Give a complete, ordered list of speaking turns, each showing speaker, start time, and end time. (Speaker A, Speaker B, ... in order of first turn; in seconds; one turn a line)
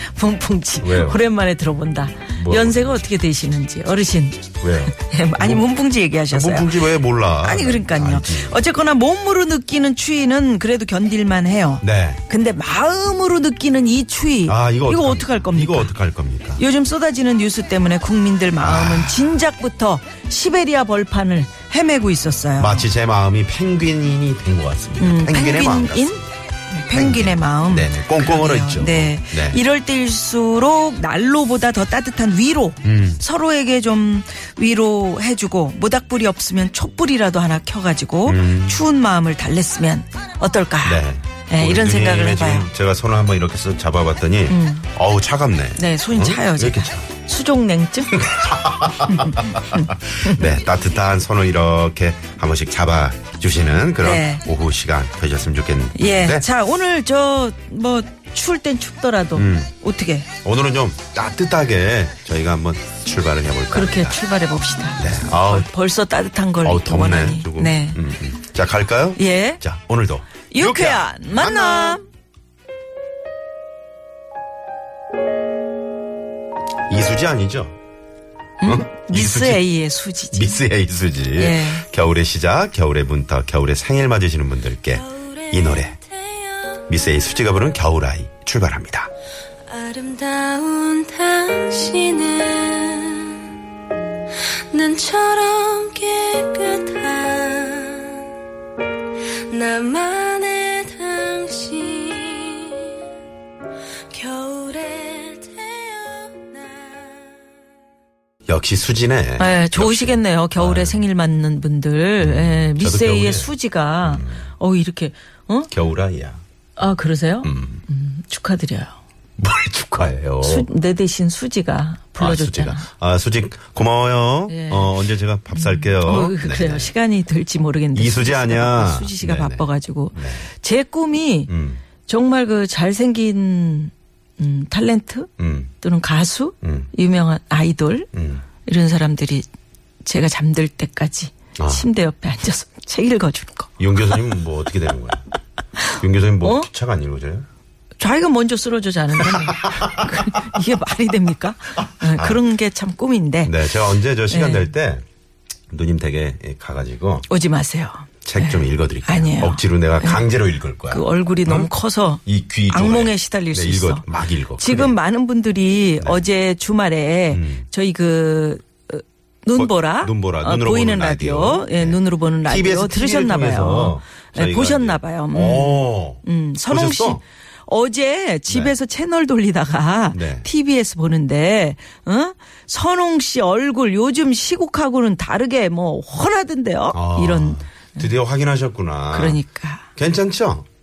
Speaker A: 0.1-6.9
Speaker B: 0.8-1.2
Speaker B: 2.4-3.0
Speaker B: 4.6-5.7
Speaker B: 6.3-8.6
Speaker A: 7.4-15.9
Speaker B: 11.8-12.2
Speaker B: 14.5-16.6
Speaker A: 16.6-22.9
Speaker B: 18.6-19.4
Speaker B: 22.6-26.3
Speaker A: 25.0-42.7
Speaker B: 26.9-29.6
Speaker B: 32.8-33.2
Speaker B: 38.3-38.8
Speaker B: 40.8-47.1
Speaker A: 44.5-44.9
Speaker A: 45.8-48.3
Speaker B: 48.1-56.5
Speaker A: 49.0-50.4
Speaker A: 54.0-54.4
Speaker A: 56.0-60.3
Speaker B: 59.4-59.7
Speaker B: 60.4-64.2
Speaker A: 63.7-68.0
Speaker B: 65.0-65.7
Speaker B: 66.6-72.0
Speaker A: 69.2-69.6
Speaker A: 70.5-72.0
Speaker B: 76.9-77.8
Speaker A: 78.6-80.6
Speaker B: 78.6-79.6
Speaker B: 80.3-86.0
Speaker A: 81.3-81.9
Speaker C: 86.2-86.8
Speaker B: 86.8-89.1
Speaker C: 89.7-93.5
Speaker C: 94.4-98.2
Speaker C: 99.5-102.9
Speaker C: 104.1-106.7
Speaker B: 108.5-111.0
Speaker A: 109.4-115.7
Speaker B: 112.2-114.5
Speaker B: 115.7-116.4
Speaker A: 116.8-119.0
Speaker B: 117.4-117.8
Speaker B: 119.4-120.7
Speaker A: 120.4-122.9
Speaker B: 122.2-126.9
Speaker A: 124.5-124.9
Speaker A: 125.5-131.5
Speaker B: 128.0-130.5
Speaker B: 131.5-131.8
Speaker A: 132.1-135.3
Speaker B: 135.4-135.7
Speaker A: 135.8-138.1
Speaker B: 136.6-136.9
Speaker B: 138.1-138.4
Speaker A: 138.7-139.5
Speaker A: 140.0-143.7
Speaker B: 141.6-141.9
Speaker B: 143.8-145.2
Speaker A: 145.8-146.7
Speaker B: 145.9-147.5
Speaker A: 148.0-153.6
Speaker B: 149.5-150.6
Speaker B: 152.0-152.4
Speaker B: 153.4-155.0
Speaker A: 154.3-154.7
Speaker B: 155.7-157.3
Speaker A: 157.3-160.2
Speaker B: 158.2-161.7
Speaker A: 160.9-164.1
Speaker B: 162.3-165.0
Speaker A: 164.6-188.1
Speaker B: 167.3-167.7
Speaker B: 169.6-177.2
Speaker B: 178.5-178.8
Speaker B: 180.1-180.5
Speaker B: 186.9-189.4
Speaker A: 189.1-189.9
Speaker B: 190.0-190.7